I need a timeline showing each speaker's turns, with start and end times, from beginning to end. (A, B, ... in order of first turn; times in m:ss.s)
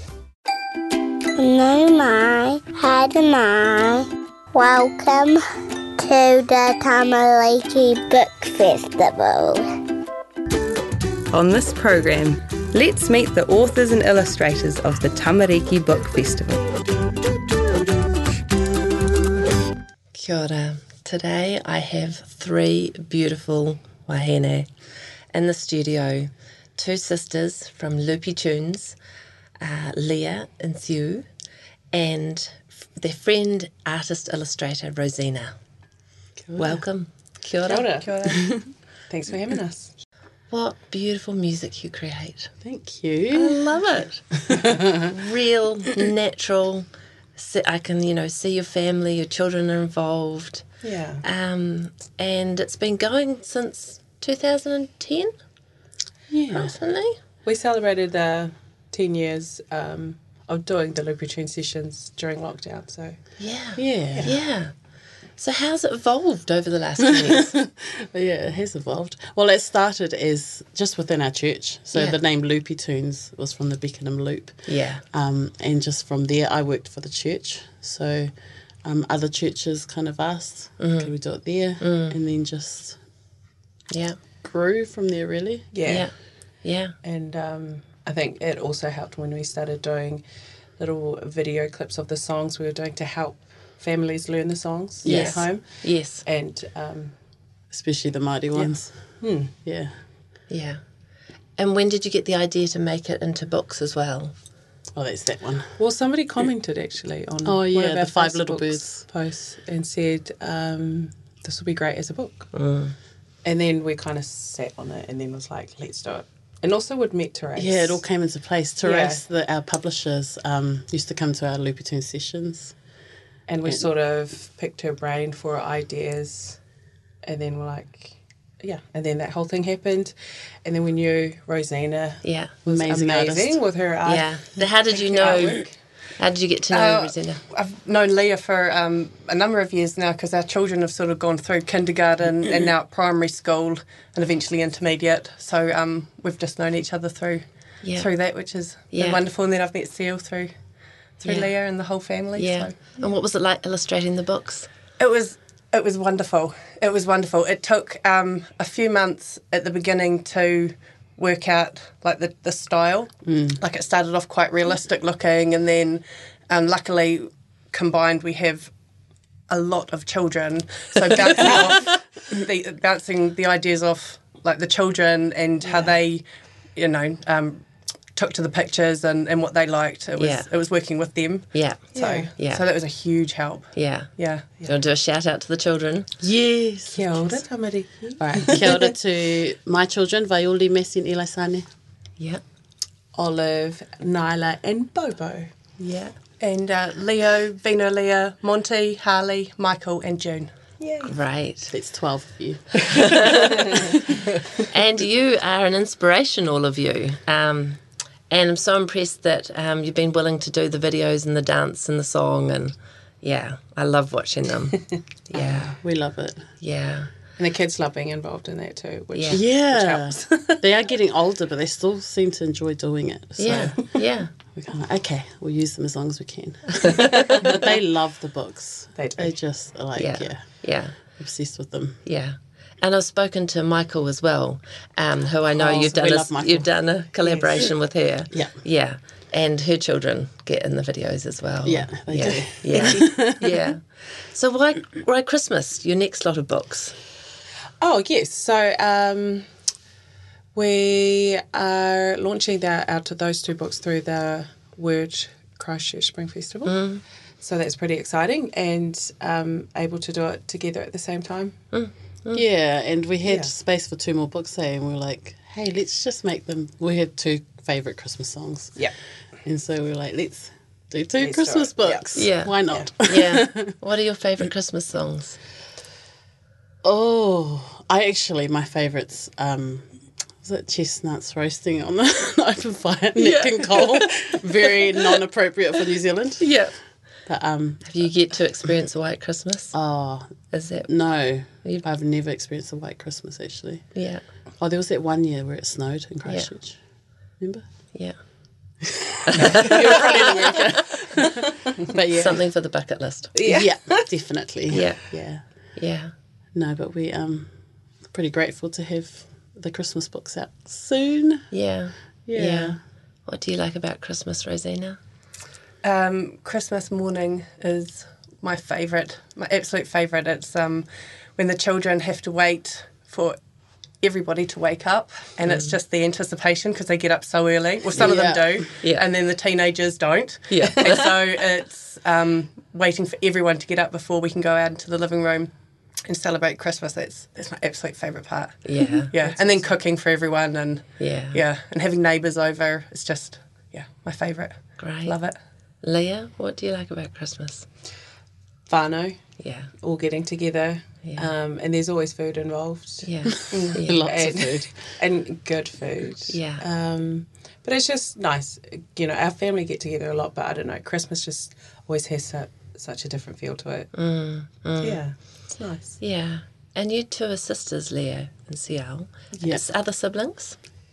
0:01.4-0:05.4 A
0:06.0-0:09.7 A
0:11.3-0:16.6 B
0:20.1-0:24.7 C
0:25.3-0:29.0 C
0:29.6-0:31.2 C
0:31.9-0:35.5 C
0:36.4-0:36.8 D
0:36.6-0:37.9 C
0:37.6-0:38.1 E
0:38.0-0:38.6 F
0:39.1-0:39.9 E
0:40.5-0:42.5 C
0:42.6-0:43.6 D
0:43.3-0:44.2 C
0:44.5-0:45.1 D
0:44.8-0:50.6 C
0:50.8-0:51.2 E
0:51.2-0:55.3 C
0:56.3-0:56.7 D
0:56.5-0:57.2 C
0:57.4-1:03.2 E
1:03.4-1:04.7 C
1:03.8-1:04.3 D
1:05.4-1:07.6 C
1:07.1-1:18.3 D
1:14.6-1:15.0 C
1:18.8-1:23.0 D
1:20.8-1:21.1 C
1:21.8-1:22.2 C
1:23.9-1:24.2 C
1:24.4-1:25.7 D
1:25.7-1:26.1 E
1:25.8-1:26.1 C
1:26.6-1:26.9 C
1:27.0-1:30.2 E
1:30.8-1:37.1 E
1:35.0-1:35.5 D
1:35.0-1:36.2 C
1:37.7-1:39.9 D
1:38.5-1:39.5 E
1:40.5-1:40.8 C
1:41.6-1:44.3 C
1:44.9-1:45.8 D
1:45.8-1:52.5 E
1:47.4-1:49.0 D
1:52.5-1:52.9 C
1:53.4-1:58.0 E
1:57.6-2:02.7 D
1:58.8-1:59.2 E
2:03.5-2:06.6 E
2:07.2-2:10.1 E
2:10.6-2:15.7 E
2:12.2-2:12.5 C
2:12.6-2:13.6 D
2:14.0-2:15.6 C
2:16.2-2:17.4 C
2:16.7-2:30.5 F
2:27.8-2:28.1 C
2:28.9-2:29.2 C
2:31.2-2:32.8 F
2:31.2-2:31.5 C
2:32.4-2:34.7 C
2:35.0-2:48.7 F
2:43.2-2:43.6 D
2:49.5-3:04.5 F
3:00.2-3:00.5 C
3:01.5-3:02.6 C
3:01.9-3:02.3 E
3:03.7-3:06.1 C
3:06.2-3:07.0 D
3:06.9-3:08.9 E
3:08.2-3:11.6 D
3:13.1-3:15.5 E
3:15.8-3:16.1 C
3:16.4-3:20.5 F
3:20.8-3:21.1 E
3:21.0-3:21.7 C
3:21.7-3:23.8 D
3:22.9-3:23.6 C
3:24.7-3:35.7 C
3:35.4-3:36.5 D
3:36.6-3:37.1 C
3:37.4-3:40.6 E
3:39.1-3:39.4 C
3:39.3-3:44.0 D
3:43.4-3:44.3 C
3:44.5-3:50.5 D
3:47.0-3:47.3 C
3:47.3-3:47.7 E
3:49.0-3:49.3 E
3:50.0-3:51.0 C
3:51.0-3:52.0 D
3:52.0-4:07.0 C
3:55.5-3:56.7 D
3:57.2-3:57.6 E
4:01.6-4:03.5 D
4:02.7-4:03.0 E
4:07.8-4:09.5 E
4:10.5-4:16.8 E
4:16.6-4:17.0 C
4:17.4-4:21.6 E
4:21.7-4:22.4 C
4:22.3-4:28.8 D
4:23.2-4:23.5 E
4:29.4-4:33.7 D
4:31.2-4:32.1 E
4:32.1-4:35.4 C
4:36.8-4:46.5 D
4:43.2-4:44.3 C
4:46.4-4:46.7 C
4:47.3-4:48.1 D
4:47.8-4:49.8 C
4:49.7-4:50.4 D
4:50.5-4:50.9 C
4:50.9-4:53.9 D
4:51.5-4:51.8 C
4:53.9-4:54.2 C
4:54.6-4:56.8 D
4:57.4-4:57.6 D
4:58.8-5:02.4 D
4:59.2-5:00.6 C
4:59.6-5:00.5 E
5:02.2-5:03.3 C
5:03.3-5:04.1 E
5:03.4-5:05.4 D
5:04.7-5:05.0 C
5:05.7-5:06.1 C
5:06.5-5:07.5 D
5:08.0-5:11.5 D
5:11.5-5:15.0 C
5:12.3-5:12.8 D
5:15.8-5:23.4 F
5:24.0-5:35.5 F
5:25.5-5:25.7 C
5:27.9-5:28.7 D
5:28.8-5:29.0 C
5:30.5-5:31.1 C
5:36.0-5:45.4 F
5:38.6-5:39.1 C
5:39.2-5:39.7 E
5:41.0-5:41.4 C
5:44.8-5:45.2 C
5:45.8-5:47.7 C
5:48.7-5:49.2 E
5:49.4-5:49.7 C
5:49.8-6:03.9 E
5:51.0-5:51.3 C
5:53.0-5:54.1 C
5:53.5-5:54.7 D
5:56.3-5:56.6 C
6:03.9-6:05.0 C
6:04.8-6:06.0 E
6:06.0-6:10.6 C